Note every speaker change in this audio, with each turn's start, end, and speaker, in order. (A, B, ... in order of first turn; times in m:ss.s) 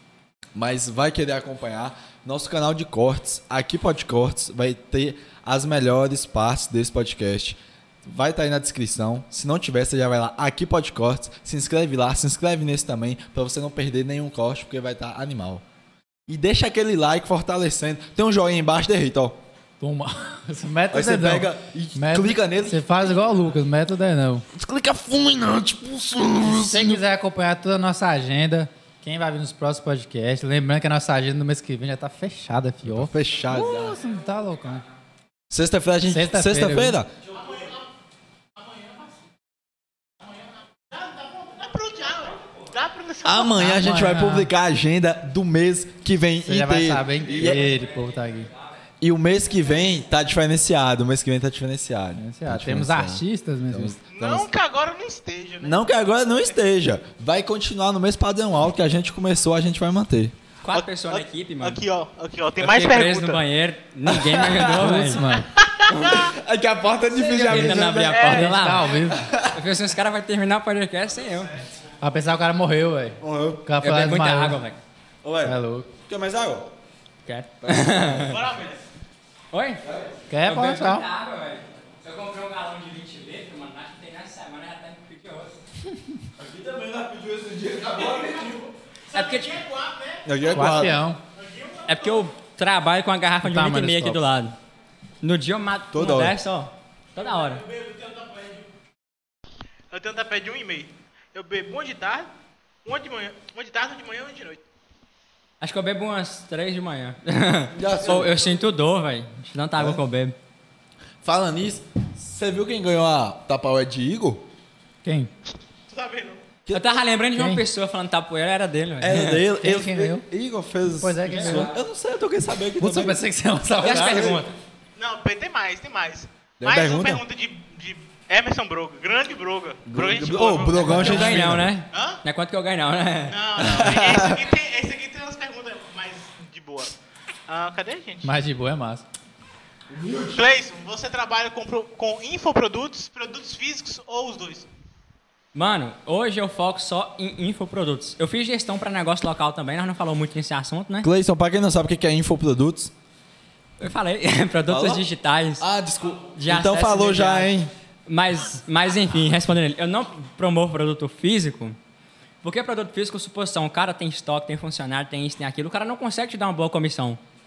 0:00.6-0:15.6 A
0:16.3-0:19.4 A
0:19.8-0:24.4 B
0:20.9-0:23.0 A
0:24.5-0:27.0 A
0:26.4-0:34.9 B
0:32.8-0:34.0 A
0:35.5-0:37.1 A
0:36.1-0:37.0 B
0:37.4-0:37.8 C
0:41.0-0:43.7 C
0:43.2-0:47.7 A
0:43.6-0:44.5 B
0:46.4-0:48.5 B
0:49.0-0:54.5 A
0:52.2-0:53.9 B
0:54.1-0:55.9 C
0:55.6-1:00.3 A
1:00.6-1:01.8 D
1:00.7-1:03.4 C
1:02.6-1:05.2 D
1:04.1-1:04.8 A
1:04.6-1:05.5 B
1:05.6-1:06.3 C
1:05.9-1:06.2 D
1:06.0-1:09.6 A
1:07.1-1:11.6 D
1:07.5-1:09.3 B
1:08.1-1:08.7 C
1:12.0-1:14.6 B
1:13.2-1:13.7 A
1:13.8-1:14.8 D
1:15.2-1:16.7 A
1:15.4-1:15.9 B
1:17.3-1:18.4 D
1:17.6-1:18.4 A
1:18.2-1:18.8 C
1:19.5-1:19.8 D
1:19.8-1:20.2 A
1:20.3-1:21.1 B
1:20.4-1:25.5 D
1:26.4-1:28.6 A
1:28.0-1:28.6 C
1:29.1-1:32.2 C
1:29.1-1:29.6 D
1:30.2-1:31.0 A
1:30.5-1:31.2 B
1:31.9-1:34.6 D
1:33.4-1:34.2 B
1:35.2-1:37.6 D
1:35.9-1:36.4 A
1:37.7-1:38.6 C
1:39.9-1:42.3 C
1:42.8-1:44.6 C
1:45.6-1:50.4 D
1:47.7-1:48.4 A
1:51.2-1:54.4 A
1:55.0-1:55.3 B
1:55.9-1:56.4 C
1:56.6-1:56.9 A
1:56.7-1:59.4 D
1:57.4-1:57.6 B
1:59.0-2:03.2 A
1:59.6-2:00.3 B
2:01.0-2:01.7 B
2:01.4-2:01.7 D
2:02.8-2:04.4 B
2:03.8-2:04.6 D
2:03.8-2:04.4 A
2:05.0-2:11.4 C
2:06.6-2:07.2 A
2:09.9-2:11.7 A
2:10.8-2:13.4 D
2:11.9-2:12.2 C
2:13.3-2:16.9 C
2:13.6-2:14.4 A
2:17.5-2:18.3 C
2:18.2-2:19.0 B
2:19.9-2:20.4 A
2:20.3-2:24.7 C
2:25.5-2:31.1 D
2:31.0-2:32.9 A
2:33.8-2:35.6 D
2:34.7-2:35.1 A
2:35.6-2:37.7 A
2:36.4-2:37.5 D
2:38.1-2:41.8 D
2:42.4-2:47.2 D